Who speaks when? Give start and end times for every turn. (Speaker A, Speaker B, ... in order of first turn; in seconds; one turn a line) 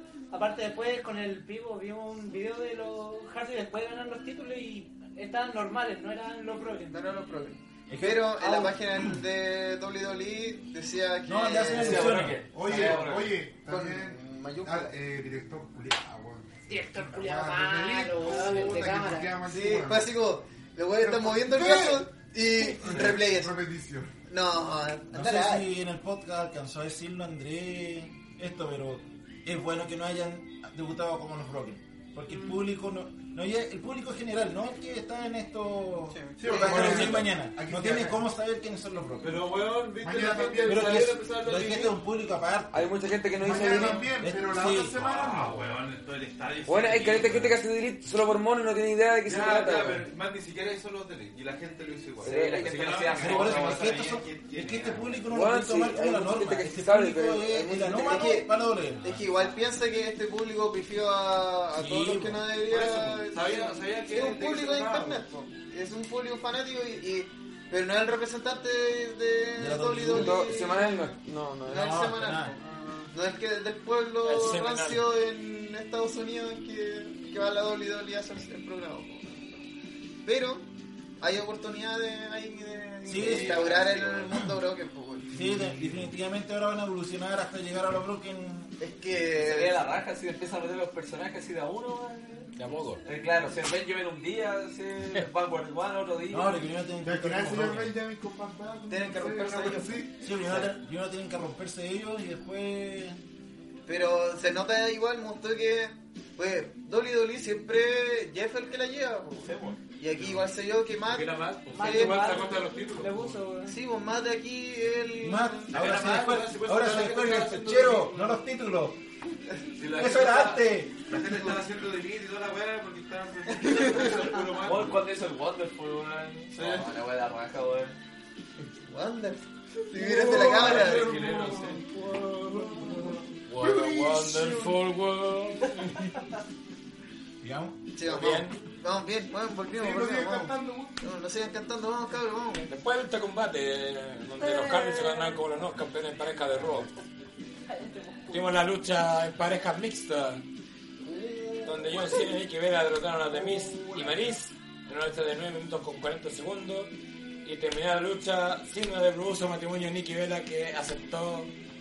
Speaker A: 0.3-7.0
Speaker B: 6.9-12.3
Speaker C: 7.9-8.3
Speaker A: 8.4-8.7
Speaker C: 11.2-12.5
Speaker D: 11.7-13.4
Speaker E: 12.4-20.1
Speaker F: 12.7-13.1
Speaker B: 13.7-15.0
Speaker A: 16.7-19.4
Speaker B: 19.4-23.5
Speaker E: 21.0-22.1
Speaker E: 22.7-24.1
Speaker B: 24.3-25.7
Speaker C: 25.1-39.4
Speaker B: 36.1-37.1
Speaker E: 36.4-38.2
Speaker G: 36.8-37.1
Speaker F: 39.2-42.0
Speaker E: 40.0-41.1
Speaker C: 40.6-45.0
Speaker H: 42.7-44.1
Speaker E: 43.4-45.7
Speaker F: 44.9-47.6
Speaker H: 46.6-50.0
Speaker F: 49.2-55.2
Speaker H: 52.2-53.1
Speaker D: 52.2-54.2
Speaker C: 53.1-59.2
Speaker H: 55.3-58.3
Speaker B: 57.6-58.5
Speaker B: 59.0-79.6
Speaker C: 61.7-62.5
Speaker F: 62.7-65.2
Speaker C: 69.6-70.4
Speaker H: 70.1-71.9
Speaker C: 71.7-72.5
Speaker G: 74.2-75.0
Speaker B: 80.2-80.7
Speaker B: 81.2-85.6
Speaker C: 83.0-83.7
Speaker D: 83.1-84.3
Speaker C: 84.3-84.6
Speaker C: 85.3-88.7
Speaker B: 88.8-89.8
Speaker D: 89.3-92.5
Speaker G: 92.6-93.0
Speaker D: 93.0-96.6
Speaker C: 96.3-97.9
Speaker E: 97.0-100.2
Speaker B: 98.9-100.0
Speaker C: 100.2-103.2
Speaker B: 103.9-112.4
Speaker D: 109.4-109.8
Speaker F: 110.2-110.4
Speaker F: 111.0-113.4
Speaker A: 111.7-113.8
Speaker B: 113.7-115.7
Speaker C: 115.2-119.0
Speaker F: 115.7-118.4
Speaker F: 119.8-125.0
Speaker C: 119.9-121.5
Speaker B: 123.6-124.2
Speaker D: 124.6-128.0
Speaker F: 126.5-126.9
Speaker B: 128.8-131.1
Speaker E: 130.0-131.8
Speaker F: 130.2-131.8
Speaker A: 131.8-133.0
Speaker G: 133.5-136.1
Speaker E: 133.6-134.7
Speaker C: 137.4-137.8
Speaker B: 137.9-142.7
Speaker G: 138.0-138.6
Speaker E: 139.7-141.0
Speaker G: 142.7-146.9
Speaker A: 144.4-145.4
Speaker A: 147.7-148.5
Speaker G: 148.3-150.4
Speaker B: 151.0-152.0
Speaker G: 151.6-156.9
Speaker B: 153.4-154.1
Speaker G: 157.4-161.5